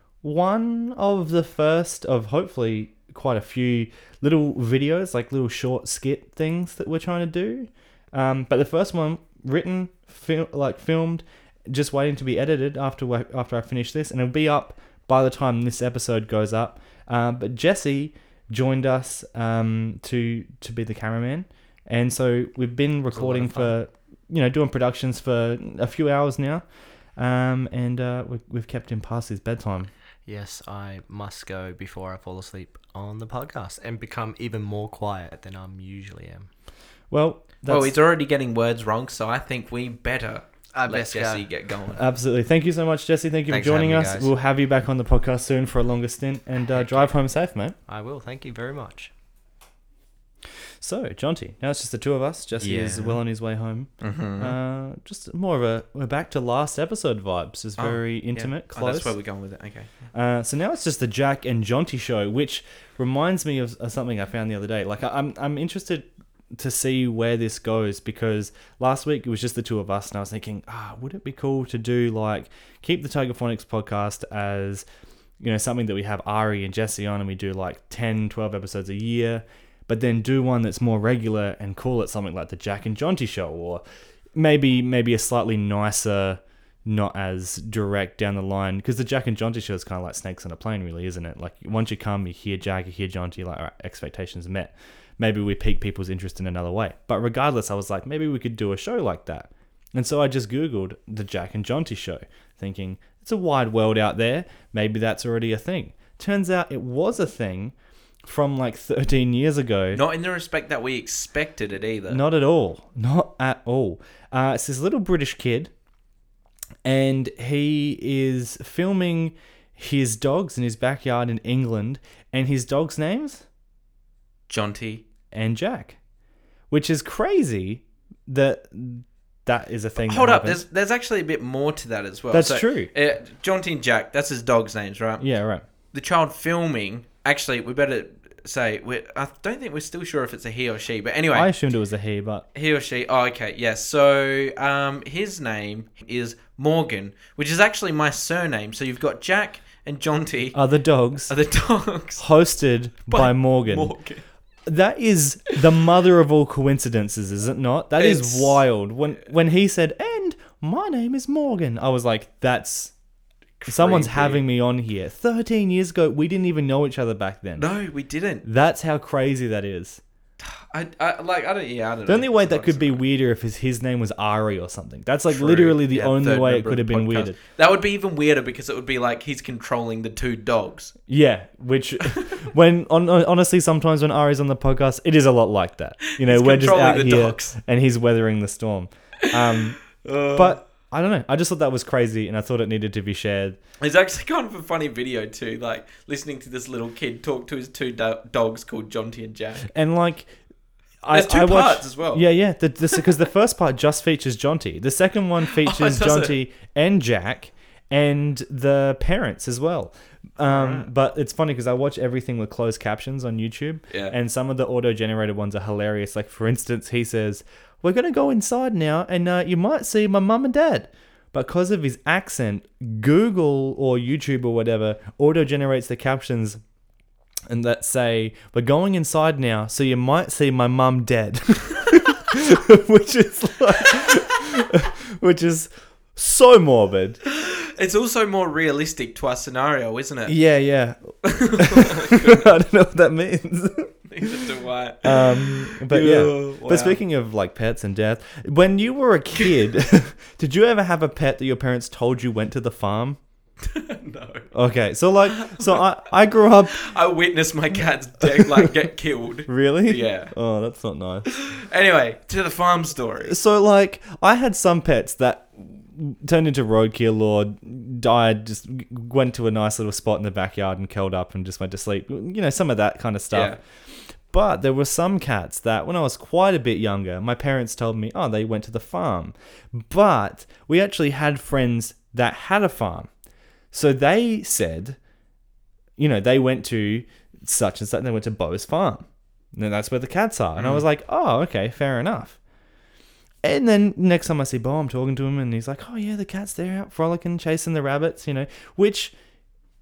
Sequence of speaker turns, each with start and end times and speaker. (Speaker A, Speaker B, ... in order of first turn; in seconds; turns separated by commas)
Speaker A: 0.2-26.6, Speaker B: 23.1-23.7, Speaker A: 27.2-29.9, Speaker B: 30.3-36.5, Speaker A: 37.1-38.0, Speaker C: 37.7-42.0, Speaker B: 40.7-41.5, Speaker A: 41.9-47.8, Speaker B: 43.5-44.3, Speaker B: 47.9-49.1, Speaker A: 50.8-59.1, Speaker B: 52.6-53.2, Speaker C: 54.0-54.6, Speaker C: 57.8-58.0, Speaker C: 58.6-59.9, Speaker A: 60.1-74.8, Speaker A: 75.4-83.8, Speaker A: 84.3-110.0, Speaker C: 109.9-112.2, Speaker A: 112.1-115.7, Speaker A: 116.8-123.4, Speaker C: 124.5-125.0, Speaker A: 125.3-126.0, Speaker A: 126.7-130.6, Speaker C: 130.0-135.3, Speaker A: 132.3-132.9, Speaker A: 135.2-135.6, Speaker C: 135.9-141.5, Speaker A: 141.3-142.4, Speaker C: 142.6-150.6, Speaker A: 150.5-151.3, Speaker C: 151.3-152.2, Speaker A: 152.2-153.9, Speaker C: 153.1-154.2, Speaker A: 154.7-162.9, Speaker C: 158.0-158.6, Speaker C: 163.6-164.4, Speaker A: 163.7-167.7, Speaker C: 167.6-168.4, Speaker A: 168.4-170.0, Speaker C: 170.4-173.0, Speaker A: 172.1-177.4, Speaker C: 175.3-180.9, Speaker A: 181.1-193.6, Speaker C: 186.0-187.5, Speaker C: 189.2-190.6, Speaker C: 193.8-199.7, Speaker A: 199.7-200.3, Speaker A: 201.0-226.6, Speaker C: 201.1-202.2, Speaker C: 205.5-206.3, Speaker C: 210.4-210.9, Speaker C: 213.9-214.2, Speaker A: 227.5-237.2, Speaker C: 237.2-240.4, Speaker A: 240.3-244.5, Speaker C: 241.2-242.5, Speaker C: 244.1-247.0, Speaker A: 245.0-253.2, Speaker C: 253.6-254.5, Speaker A: 254.5-256.8, Speaker C: 255.3-255.8, Speaker C: 256.7-260.3, Speaker A: 259.5-261.3, Speaker C: 261.3-263.4, Speaker A: 263.2-273.6, Speaker C: 273.3-273.6, Speaker A: 274.3-283.1, Speaker A: 283.7-285.0, Speaker A: 286.0-292.4, Speaker C: 290.6-290.8, Speaker A: 293.4-299.1